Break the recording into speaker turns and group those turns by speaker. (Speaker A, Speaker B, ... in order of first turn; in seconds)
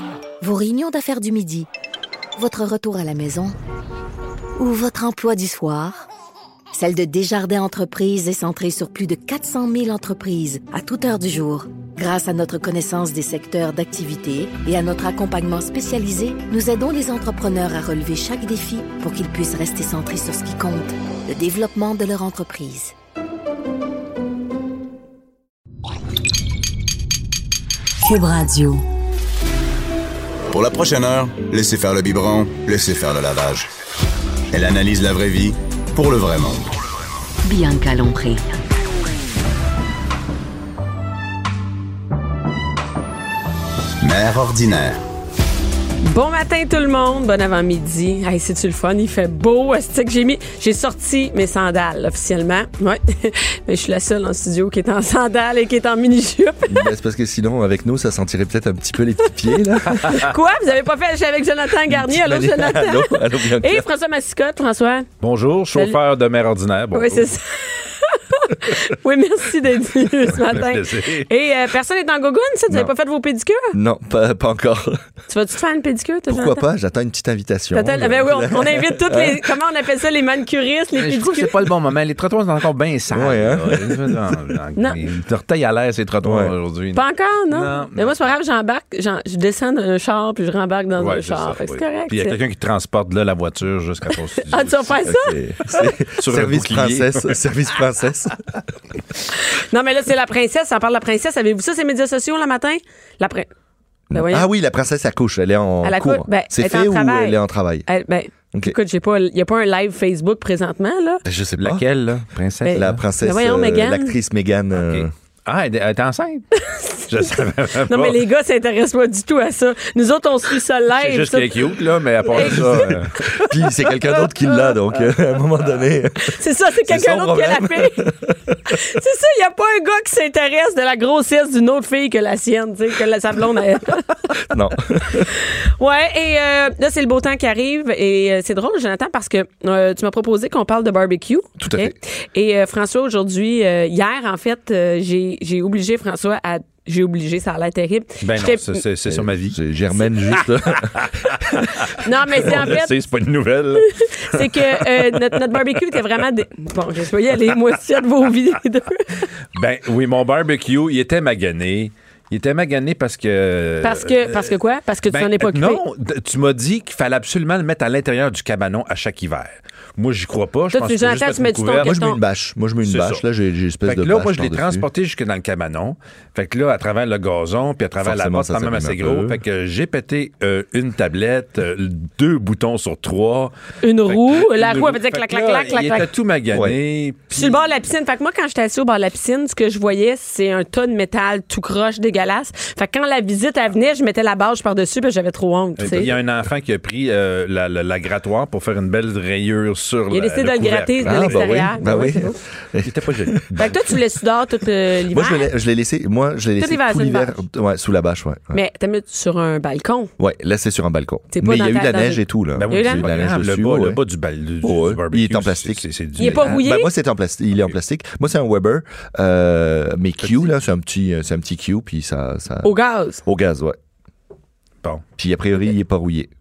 Speaker A: 0.4-1.7, 2.4-3.5, 4.6-6.0, 6.7-22.9
Speaker B: 28.0-28.8, 37.4-38.6
Speaker C: 30.5-33.7, 34.5-36.7, 44.0-45.0
Speaker D: 46.0-56.9, 59.9-65.1, 66.9-73.8, 75.3-76.6, 77.7-81.5, 86.9-92.3, 94.5-95.3, 99.3-103.5, 104.1-104.5, 105.8-111.2, 112.6-114.1, 116.6-117.0, 117.8-121.6, 122.3-122.9, 124.1-124.7, 126.2-128.1, 128.7-134.1, 135.1-148.8, 152.0-152.9, 153.8-159.3, 163.8-165.8, 170.7-172.2, 183.8-186.1, 187.3-196.1, 200.1-202.4, 203.6-205.5, 206.6-207.4, 208.5-210.1, 211.3-213.1, 216.2-216.9, 222.6-223.2
Speaker E: 56.7-60.2, 61.9-63.9, 73.7-75.0, 76.3-79.5, 83.1-84.3, 86.2-86.5, 95.0-98.4, 104.1-107.8, 111.2-112.1, 112.7-115.1, 122.4-128.7, 134.5-135.3, 141.6-141.9, 149.1-151.6, 152.5-152.8, 171.8-174.9, 178.0-179.4, 186.5-186.8, 195.8-196.1, 201.0-203.5, 205.1-208.6, 210.2-214.0, 214.6-222.7, 223.2-223.8, 225.2-226.3
Speaker F: 65.2-67.3, 70.3-71.3, 81.0-88.3, 91.0-95.1, 95.8-97.5, 111.6-113.0, 114.7-116.5, 117.1-118.2, 121.0-123.4, 148.2-149.6, 150.4-155.3, 159.5-164.6, 165.1-171.9, 172.8-173.2, 173.9-183.5, 184.1-187.6, 195.8-202.1, 202.8-203.8, 212.6-216.6, 220.2-220.5